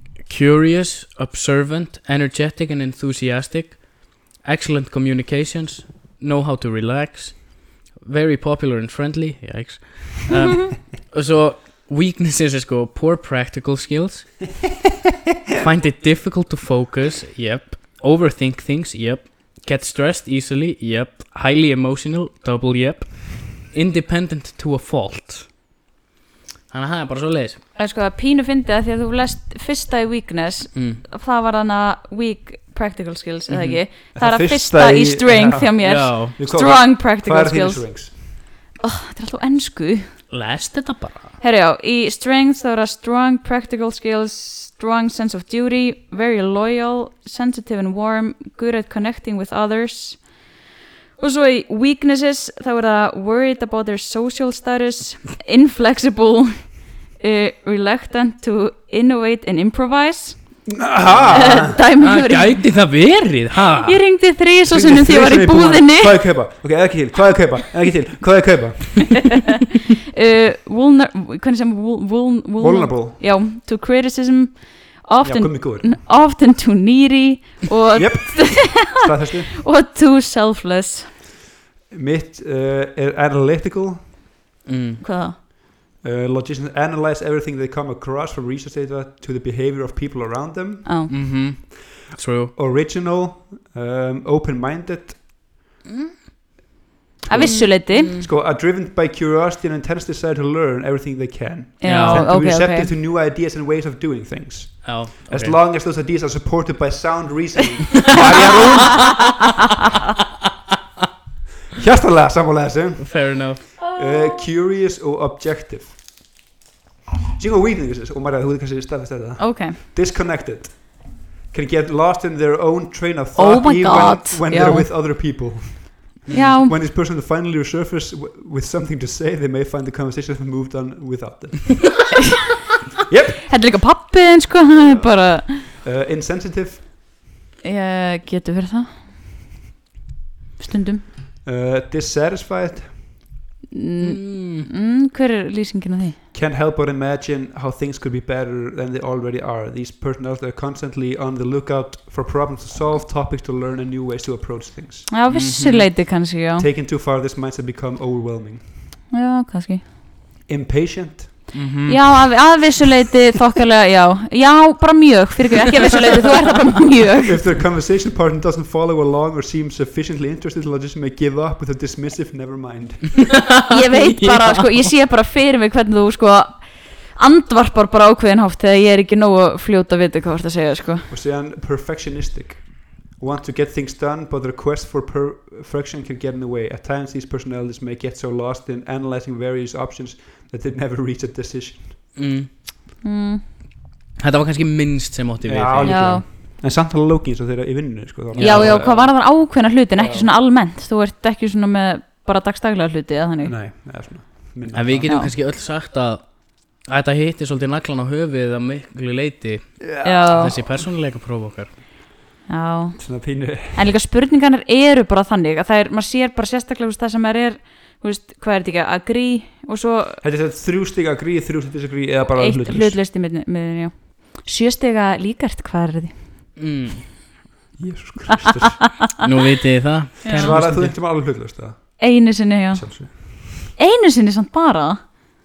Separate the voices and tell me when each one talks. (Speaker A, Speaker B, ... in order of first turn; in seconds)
Speaker A: 0.2-14.6, 15.5-25.5, 26.7-27.6, 30.7-31.0, 33.5-33.8, 35.8-36.4, 40.3-41.4, 61.1-64.0, 84.7-85.0, 91.1-92.5, 97.4-98.2, 101.8-102.3, 104.8-105.6, 108.1-109.3, 113.0-113.7, 144.0-144.7, 155.3-155.9, 161.5-162.3, 173.2-174.9, 192.2-192.5, 194.2-196.2, 198.3-198.8, 204.7-211.7, 226.6-227.1, 229.2-230.9
Speaker B: 27.8-38.2, 38.8-40.1, 41.4-50.4, 51.2-60.6, 61.3-62.6, 63.8-66.2, 70.1-81.1, 85.0-85.4, 90.9-91.1, 97.3-98.2, 101.8-102.9, 113.8-114.4, 119.4-119.8, 123.4-124.9, 126.3-126.7, 133.5-135.7, 137.6-139.0, 140.6-141.0, 143.7-146.2, 155.1-156.7, 159.1-159.8, 161.9-167.4, 173.7-181.1, 193.0-193.4, 195.8-196.2, 198.4-203.5, 210.0-210.6, 212.5-213.0, 213.7-220.2, 222.3-226.1, 230.2-230.6, 232.0-232.8, 233.7-235.0
Speaker C: 34.1-38.2, 60.7-61.8, 64.7-69.4, 72.6-73.2, 75.2-76.0, 78.0-79.6, 81.9-84.1, 86.0-90.9, 92.5-95.4, 97.3-109.3, 111.8-116.0, 117.4-131.9, 133.1-133.4, 134.8-136.9, 141.4-143.1, 146.3-155.1, 156.6-158.7, 160.5-161.5, 167.2-173.3, 181.1-192.0, 195.4-199.2, 199.9-200.3, 203.4-205.2, 209.8-210.8, 213.0-213.8, 220.2-223.0, 227.8-229.0, 230.3-232.0, 232.7-233.7